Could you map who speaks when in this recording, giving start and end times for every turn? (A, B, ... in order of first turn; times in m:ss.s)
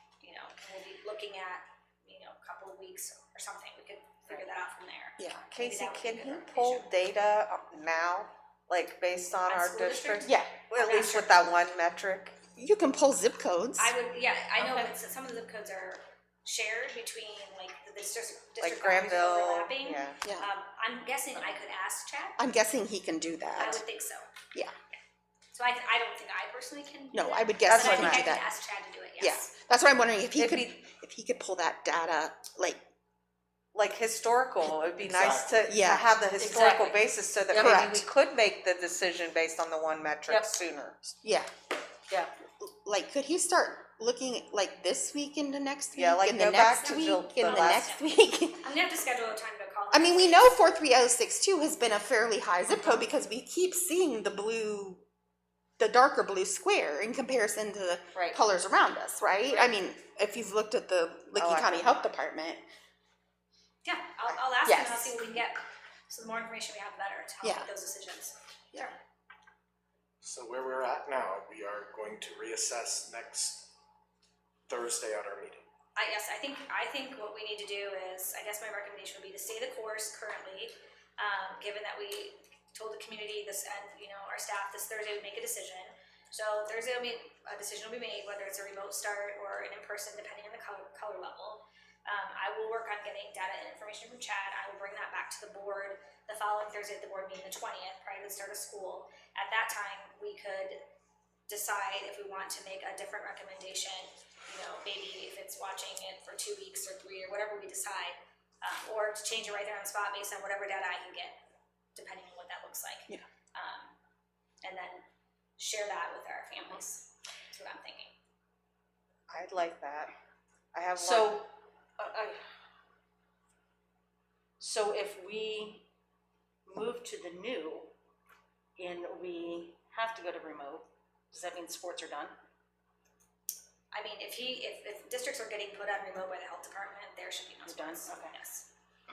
0:00.2-0:06.9 A
0:05.2-0:05.5 B
0:05.5-0:12.4 C
0:09.4-0:11.4 A
0:10.2-0:10.5 B
0:12.6-0:13.9 B
0:13.8-0:22.4 A
0:18.6-0:20.2 C
0:22.4-0:23.8 B
0:23.6-0:24.3 A
0:25.5-0:29.4 A
0:27.1-0:28.4 B
0:27.7-0:28.4 C
0:29.2-0:32.8 B
0:30.4-0:30.8 C
0:33.7-0:41.1 C
0:35.1-0:35.5 D
0:35.6-0:36.2 B
0:36.4-0:37.0 E
0:37.5-0:37.8 E
0:37.5-0:38.0 B
0:40.3-0:40.6 E
0:41.2-0:41.5 B
0:42.6-0:48.7 B
0:45.9-0:47.9 C
0:46.8-0:50.5 A
0:49.9-0:55.0 B
0:55.8-1:02.6 B
1:01.4-1:01.8 C
1:03.8-1:09.0 A
1:04.6-1:05.2 B
1:07.4-1:07.7 B
1:10.2-1:13.7 D
1:14.7-1:15.6 D
1:15.9-1:40.8 A
1:41.5-1:51.4 A
1:52.0-1:54.0 A
1:54.6-1:55.0 A
1:55.6-1:58.1 A
1:59.3-2:00.1 C
2:00.7-2:01.4 C
2:01.0-2:02.4 E
2:04.6-2:05.8 E
2:06.7-2:07.9 E
2:08.8-2:12.4 E
2:13.9-2:18.7 A
2:17.7-2:18.3 E